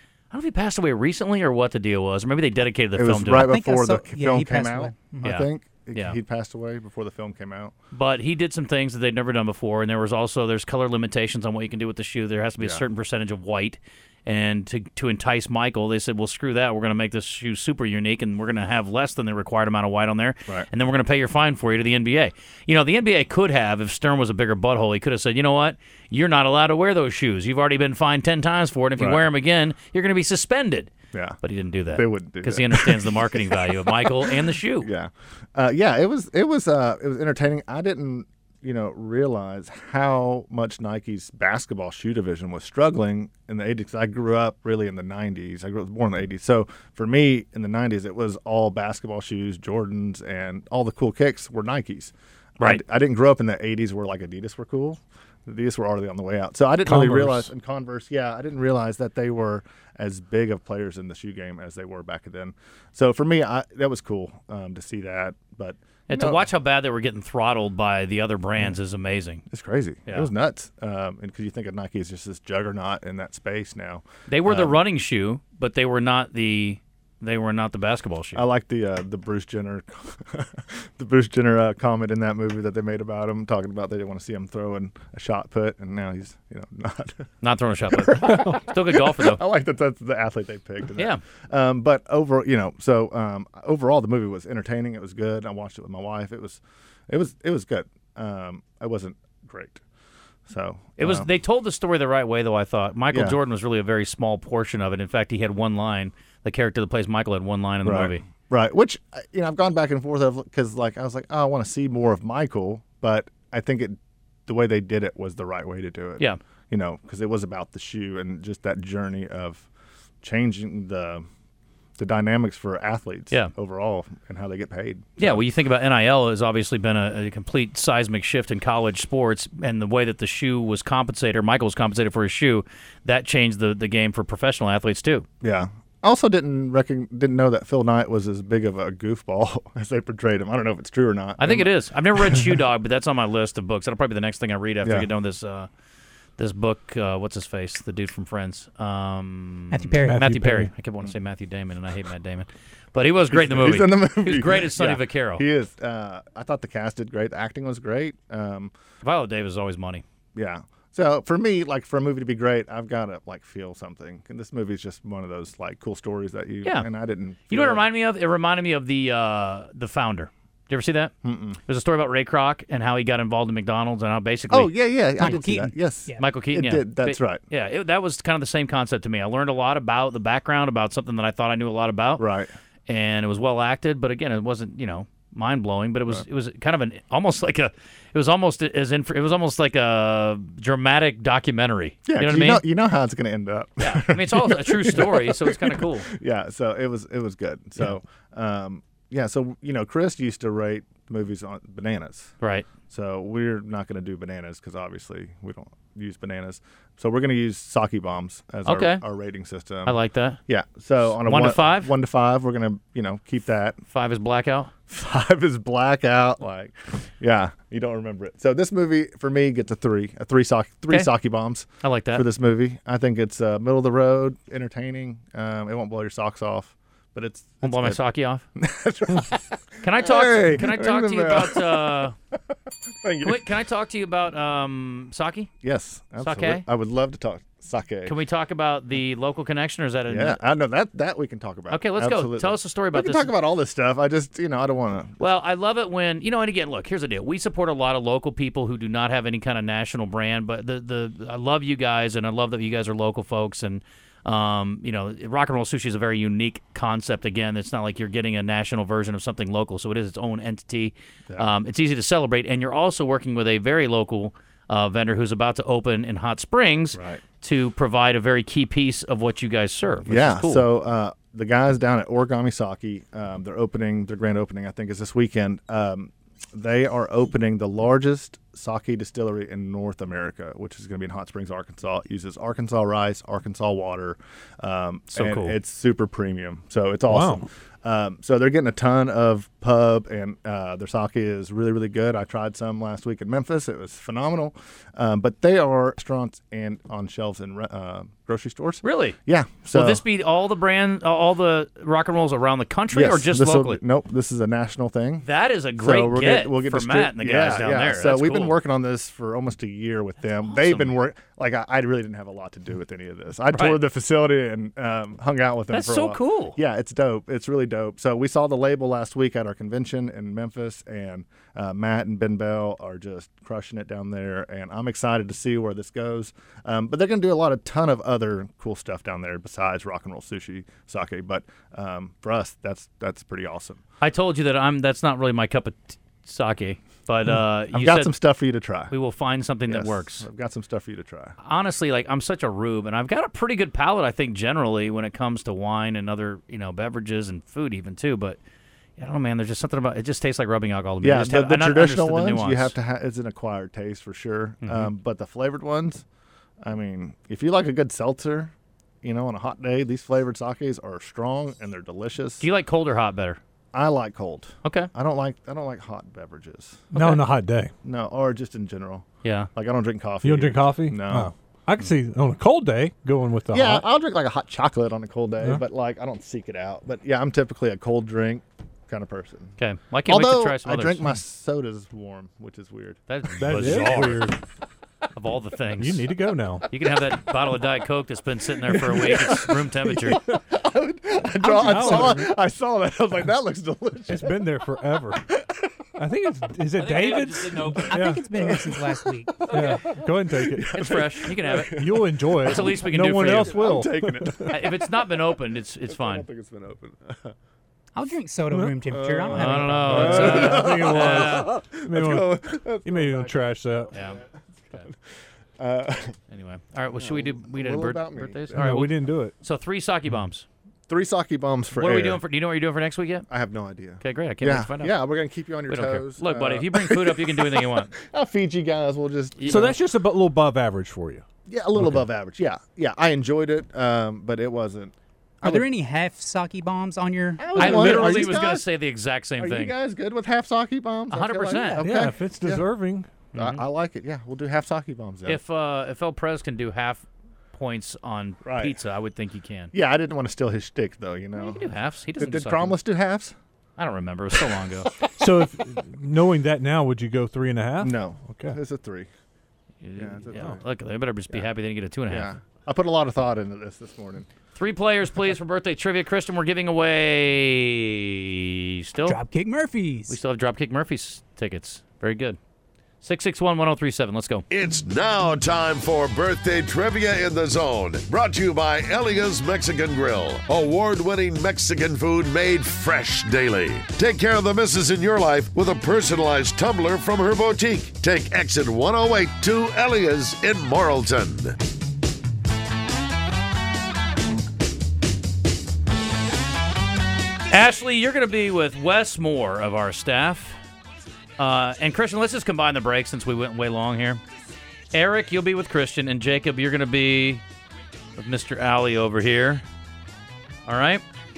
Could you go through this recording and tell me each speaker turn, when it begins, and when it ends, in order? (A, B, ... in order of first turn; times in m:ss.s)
0:00.3-0:03.6 A
0:03.0-0:07.7 B
0:03.4-0:05.2 C
0:05.2-0:06.2 A
0:07.9-0:30.9 A
0:12.6-0:12.8 B
0:29.0-0:29.2 B
0:31.1-0:31.4 B
0:31.4-0:34.9 A
0:31.9-1:06.5 B
0:56.8-0:57.5 D
1:06.1-1:09.4 A
1:09.5-1:14.8 B
1:10.0-1:10.3 A
1:14.3-1:18.4 A
1:18.3-1:27.3 B
1:27.4-1:29.4 A
1:27.9-1:39.8 B
1:31.0-1:31.2 A
1:40.5-1:41.3 B
1:41.0-1:48.2 A
1:43.1-1:43.4 B
1:47.8-1:59.7 B
2:00.2-2:01.2 B
2:02.0-2:05.4 B
2:05.2-2:15.2 A
2:15.4-2:21.8 B
2:21.4-2:25.7 A
2:24.8-2:25.1 B
2:26.4-2:35.4 A
2:30.0-2:30.7 D
2:33.3-2:38.7 B
2:39.0-2:40.0 A
2:40.3-2:47.8 B
2:46.6-2:46.9 A
2:47.5-2:54.7 A
2:51.2-2:51.6 B
2:54.5-2:57.4 B
2:55.2-2:56.2 C
2:56.2-3:02.3 A
3:02.2-3:02.5 B
3:02.9-3:12.6 A
3:12.1-3:22.3 B
3:13.8-3:16.1 A
3:22.4-3:22.7 A
3:22.9-3:33.8 B
3:28.6-3:29.0 A
3:29.8-3:30.4 A
3:31.0-3:31.9 A
3:33.9-3:34.7 A
3:34.9-3:48.0 B
3:41.8-3:42.2 A
3:47.6-3:48.4 A
3:48.6-3:52.1 B
3:49.8-3:52.1 A
3:53.0-3:53.4 B
3:53.2-3:55.5 A
3:55.6-3:58.2 B
3:56.2-3:56.6 A
3:58.0-4:00.4 A
4:00.1-4:05.2 B
4:01.7-4:03.3 A
4:05.2-4:30.6 A
4:26.9-4:27.2 B
4:30.0-5:00.0 B
4:45.1-4:45.6 A
4:47.1-4:47.4 D
4:58.8-4:59.2 A
4:59.7-5:03.8 A
5:02.9-5:33.8 B
5:05.2-5:08.6 A
5:10.4-5:10.9 A
5:13.5-5:13.8 A
5:15.7-5:16.6 A
5:34.0-5:38.1 A
5:37.3-5:38.9 B
5:38.9-5:40.2 A
5:39.7-5:41.3 B
5:41.4-5:48.4 A
5:49.0-5:52.7 A
5:51.0-5:56.0 B
5:54.6-5:54.9 A
5:56.6-6:02.5 B
6:02.4-6:03.4 A
6:03.7-6:06.8 B
6:04.6-6:04.9 A
6:06.9-6:07.7 D
6:07.8-6:11.3 B
6:09.2-6:09.5 A
6:10.2-6:13.8 D
6:13.5-6:24.0 B
6:19.6-6:21.1 A
6:23.1-6:24.2 A
6:23.4-6:24.4 D
6:25.1-6:26.1 A
6:25.8-6:26.7 D
6:26.7-6:30.2 A
6:28.7-6:34.4 B
6:31.4-6:32.3 D
6:34.1-6:35.2 D
6:35.3-6:35.7 B
6:36.0-6:38.3 D
6:36.8-6:38.1 A
6:37.9-6:39.4 C
6:38.3-6:47.3 B
6:39.4-6:40.7 D
6:40.7-6:41.8 A
6:41.7-6:44.5 D
6:42.4-6:43.6 A
6:44.5-6:46.3 A
6:47.9-6:49.8 C
6:48.5-6:48.9 D
6:48.9-6:53.4 B
6:49.3-6:51.5 A
6:49.8-6:53.9 D
6:53.9-6:54.9 A
6:55.6-6:56.2 B
6:56.3-7:00.4 A
6:56.9-6:58.7 B
6:58.5-6:59.3 D
7:00.9-7:02.2 B
7:01.7-7:03.3 A
7:03.3-7:09.7 B
7:04.0-7:05.0 A
7:05.7-7:07.9 A
7:09.4-7:09.7 A
7:09.4-7:11.2 D
7:11.5-7:15.7 B
7:11.8-7:12.0 D
7:15.4-7:18.2 C
7:17.4-7:18.6 B
7:17.6-7:19.7 A
7:19.4-7:22.6 B
7:21.1-7:21.9 A
7:21.8-7:23.1 D
7:23.3-7:23.6 A
7:23.3-7:25.4 B
7:25.2-7:29.7 A
7:28.4-7:28.8 B
7:29.7-7:33.3 B
7:31.4-7:32.8 A
7:33.8-7:34.9 A
7:35.2-7:38.6 D
7:37.8-7:39.1 B
7:39.8-7:42.3 A
7:40.0-7:40.6 B
7:42.1-7:44.3 B
7:44.5-7:49.2 A
7:49.1-7:50.1 C
7:50.1-7:52.4 A
7:53.0-7:54.4 A
7:54.5-8:11.6 E
8:17.5-8:20.6 A
8:21.4-8:24.2 A
8:24.9-8:27.4 A
8:28.2-8:29.6 A
8:30.6-8:31.0 A